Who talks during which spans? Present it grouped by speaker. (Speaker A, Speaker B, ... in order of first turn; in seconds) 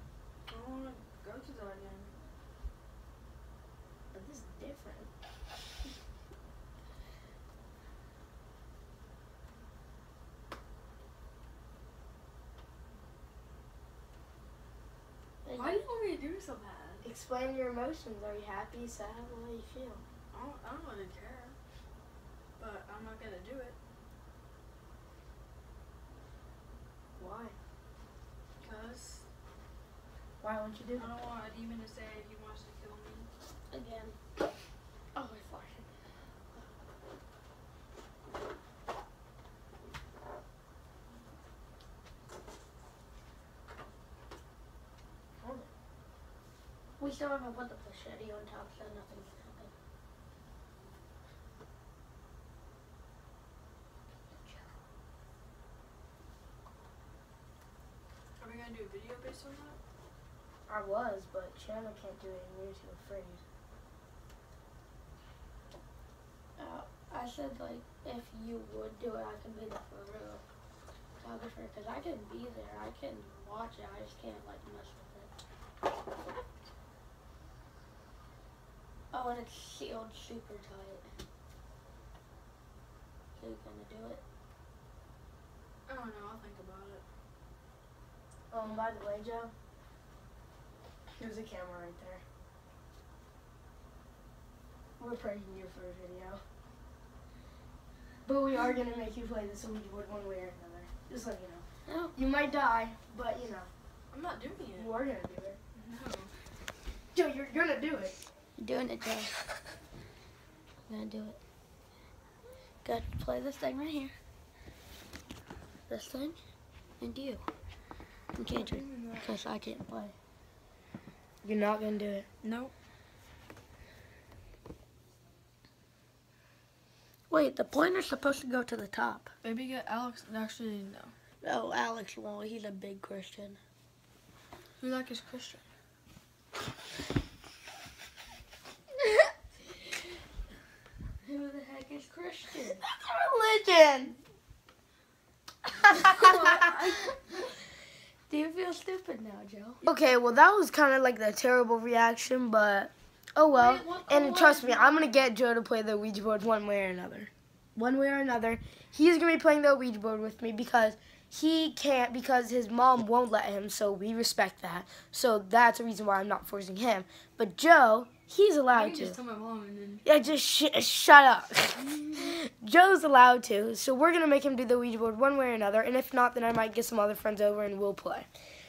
Speaker A: 0.5-2.1, 15.5-17.0, 20.3-21.6, 22.6-23.8, 28.6-29.2, 30.9-33.3, 58.4-59.8, 85.9-87.0, 104.1-104.9, 105.7-106.3, 118.5-119.3, 122.4-122.7, 129.4-131.1, 134.8-135.6, 145.9-147.2, 153.6-155.0, 168.7-170.1
Speaker B: 4.1-5.1, 17.0-20.0, 27.1-27.5, 30.4-31.1, 45.4-45.7, 60.7-63.4, 88.5-89.5, 91.2-92.2, 95.0-96.4, 98.2-101.6, 102.1-103.7, 104.7-105.6, 107.1-108.1, 121.4-122.2, 142.8-144.2, 149.8-169.2, 170.0-178.2
Speaker C: 33.7-34.2, 35.1-35.8, 47.0-49.7, 54.3-54.6, 66.6-70.4, 71.2-75.3, 79.1-81.1, 83.4-84.2, 101.8-102.1, 108.6-109.3, 110.9-111.4, 112.8-114.1, 115.9-116.4, 117.0-117.4, 118.3-120.1, 127.3-129.3, 131.4-133.6, 141.2-142.8, 148.3-149.8